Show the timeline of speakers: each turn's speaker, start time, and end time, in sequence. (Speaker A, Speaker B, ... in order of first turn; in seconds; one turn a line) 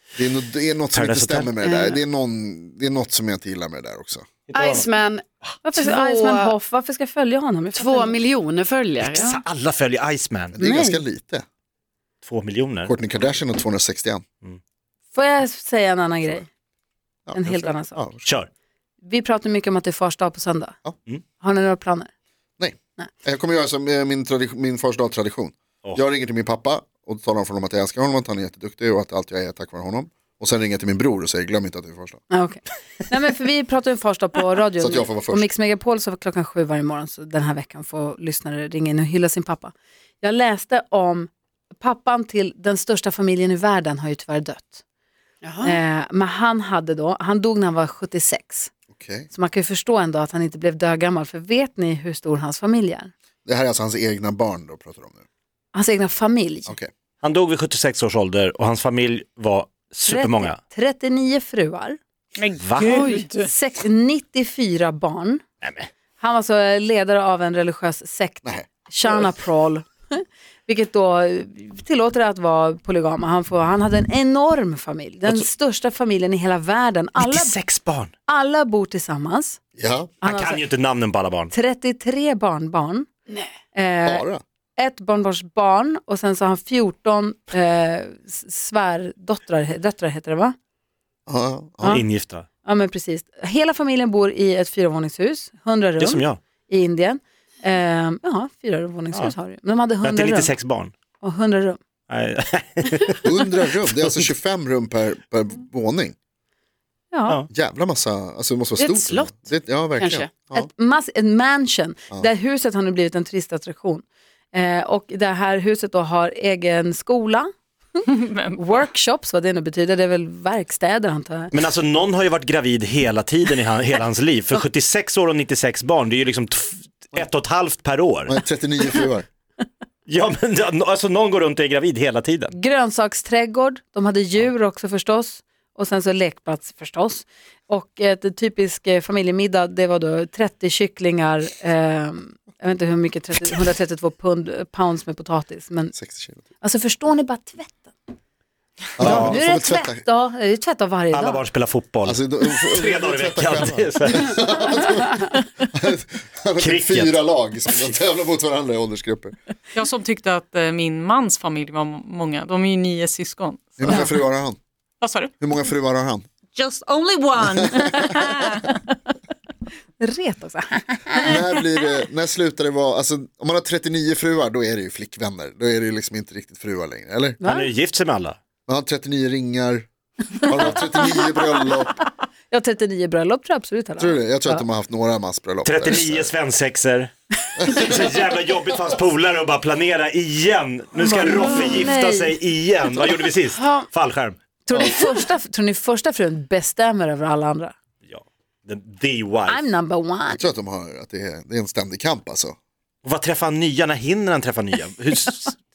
Speaker A: 0.2-4.3
Speaker B: 0.9-1.5
Speaker C: 1.6-2.0
Speaker B: 4.5-4.9
Speaker C: 4.5-6.5
Speaker D: 5.7-8.2
Speaker C: 7.8-9.4
Speaker B: 9.0-10.6
Speaker A: 10.6-11.4
Speaker D: 10.6-11.0
Speaker B: 12.2-12.9
Speaker A: 12.8-14.2
Speaker D: 15.1-16.5
Speaker A: 17.3-18.3
Speaker D: 17.3-18.1
Speaker D: 19.0-20.8
Speaker D: 21.4-22.1
Speaker A: 22.6-32.2
Speaker D: 32.3-44.8
Speaker A: 34.8-35.5
Speaker C: 45.4-45.8
Speaker D: 45.6-48.7
Speaker A: 48.9-49.3
Speaker D: 49.3-53.1
Speaker A: 53.5-55.2
Speaker D: 55.7-56.8
Speaker A: 56.7-56.9
Speaker B: 57.2-60.6
Speaker D: 60.1-62.0
Speaker E: 62.4-63.5
Speaker B: 62.6-63.0
Speaker D: 62.8-65.4
Speaker B: 65.6-65.9
Speaker D: 66.2-77.6
Speaker A: 68.4-69.3
Speaker B: 77.2-78.1
Speaker D: 78.3-79.6
Speaker A: 79.8-80.2
Speaker D: 80.2-80.6
Speaker B: 80.2-81.5
Speaker D: 81.5-83.1
Speaker D: 83.7-90.5
Speaker A: 84.0-84.4
Speaker A: 91.3-92.0
Speaker B: 91.8-92.5
Speaker D: 92.6-100.5
Speaker B: 96.0-96.4
Speaker B: 100.0-100.9
Speaker D: 101.2-101.8
Speaker B: 102.1-103.3
Speaker A: 103.2-106.2
Speaker B: 104.0-104.2
Speaker D: 107.1-107.4
Speaker A: 107.5-110.7
Speaker C: 108.8-110.3
Speaker D: 110.5-118.0
Speaker E: 118.1-118.8
Speaker D: 118.6-121.5
Speaker B: 121.5-128.4
Speaker A: 128.3-129.3
Speaker B: 130.1-132.6
Speaker D: 132.5-145.9
Speaker A: 145.9-146.4
Speaker D: 146.6-147.9
Speaker A: 149.0-150.0
Speaker B: 149.0-149.4
Speaker D: 149.0-151.4
Speaker B: 151.1-154.4
Speaker A: 152.0-159.3
Speaker B: 156.6-157.2
Speaker E: 159.7-164.1
Speaker A: 163.8-164.6
Speaker E: 165.0-165.3
Speaker A: 165.4-166.3
Speaker E: 166.6-168.7
Speaker D: 170.0-171.4
Speaker A: 171.2-177.4
Speaker D: 177.4-177.7
Speaker B: 177.4-178.4
Speaker A: 178.7-179.9
Speaker A: 180.4-181.9
Speaker D: 182.5-184.7
Speaker A: 184.0-186.3
Speaker B: 185.7-187.1
Speaker B: 187.7-194.4
Speaker D: 191.0-192.4
Speaker C: 193.4-193.9
Speaker D: 194.7-197.7
Speaker A: 194.7-195.0
Speaker B: 198.1-199.7
Speaker D: 199.5-200.5
Speaker A: 200.3-202.6
Speaker B: 203.0-205.6